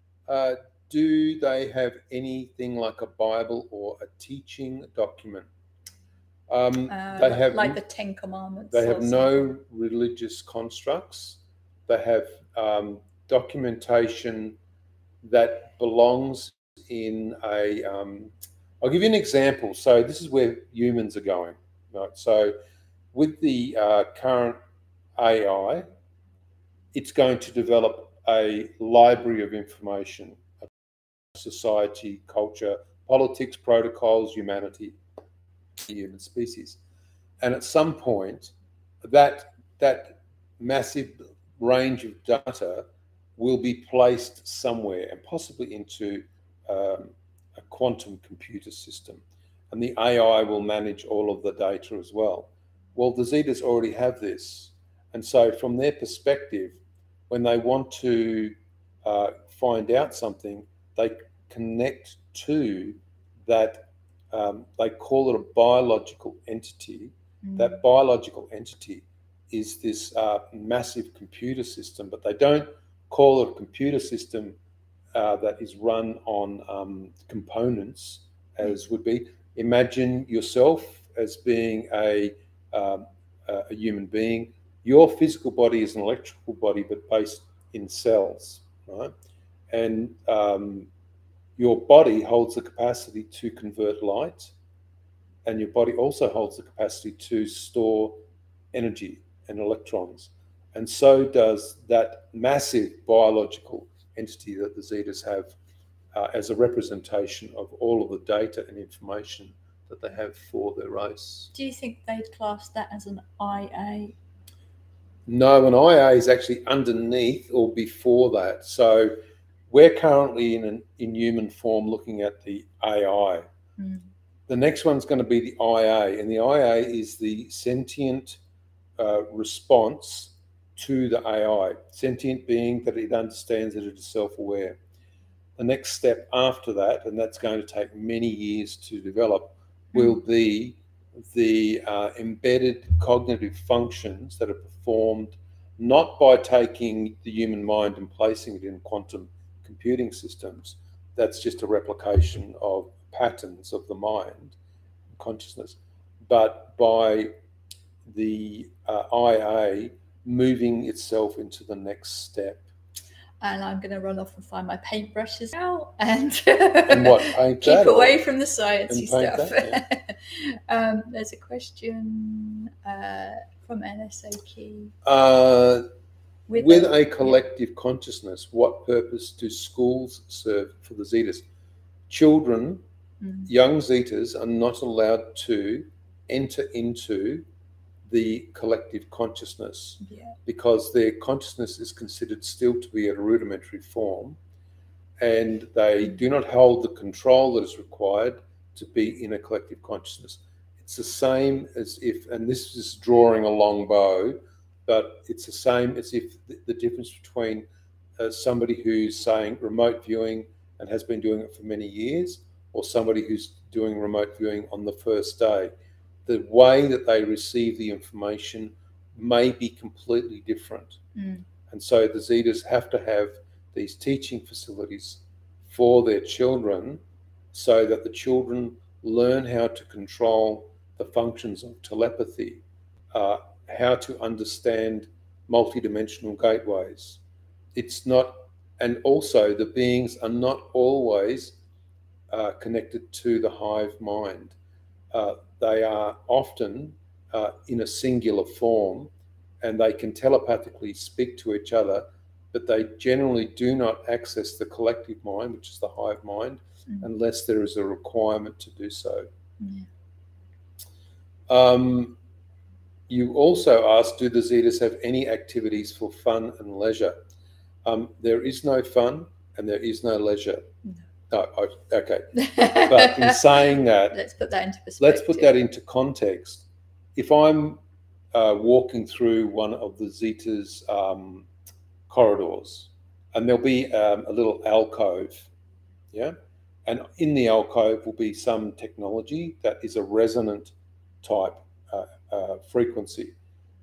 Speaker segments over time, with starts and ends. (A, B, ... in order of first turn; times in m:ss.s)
0:00.3-0:05.5 A
0:06.5-0:07.8 A
0:06.9-0:09.5 B
0:08.7-0:14.6 A
0:15.2-0:22.5 A
0:23.1-0:24.6 A
0:25.2-0:25.8 A
0:26.9-0:30.7 A
0:31.3-0:35.0 A
0:35.8-0:36.8 A
0:37.4-0:42.8 A
0:43.4-1:14.6 A
1:07.4-1:07.8 B
1:15.1-1:29.1 A
1:29.7-1:30.9 A
1:31.6-1:34.5 A
1:35.4-1:38.2 A
1:38.7-1:45.5 A
1:46.1-1:51.5 A
1:51.5-1:54.1 B
1:55.3-1:59.1 A
1:59.7-2:03.4 A
2:04.5-2:08.4 A
2:09.0-2:14.8 A
2:15.6-2:34.6 A
2:35.2-2:37.3 A
2:38.0-2:42.6 A
2:43.4-2:54.9 B
2:46.9-2:48.2 A
2:48.9-2:49.8 A
2:55.0-2:55.8 A
2:56.5-2:57.3 B
2:56.5-3:01.4 A
3:02.1-3:02.8 A
3:03.2-3:03.5 B
3:03.4-3:07.4 A
3:08.1-3:14.4 A
3:10.0-3:10.3 B
3:15.2-3:27.6 A
3:28.2-3:35.7 A
3:36.2-3:41.0 A
3:41.2-3:41.4 B
3:41.7-3:47.0 A
3:47.5-3:57.2 A
3:57.7-4:01.6 A
4:02.3-4:04.6 A
4:05.1-4:09.1 A
4:09.6-4:19.3 A
4:19.6-4:19.9 B
4:21.5-4:22.2 A
4:23.1-4:27.2 A
4:27.8-4:30.6 A
4:31.3-4:34.2 A
4:32.4-4:33.4 B
4:34.1-4:35.6 B
4:35.0-4:37.8 A
4:38.3-4:41.5 A
4:42.1-4:45.5 A
4:46.1-4:53.3 A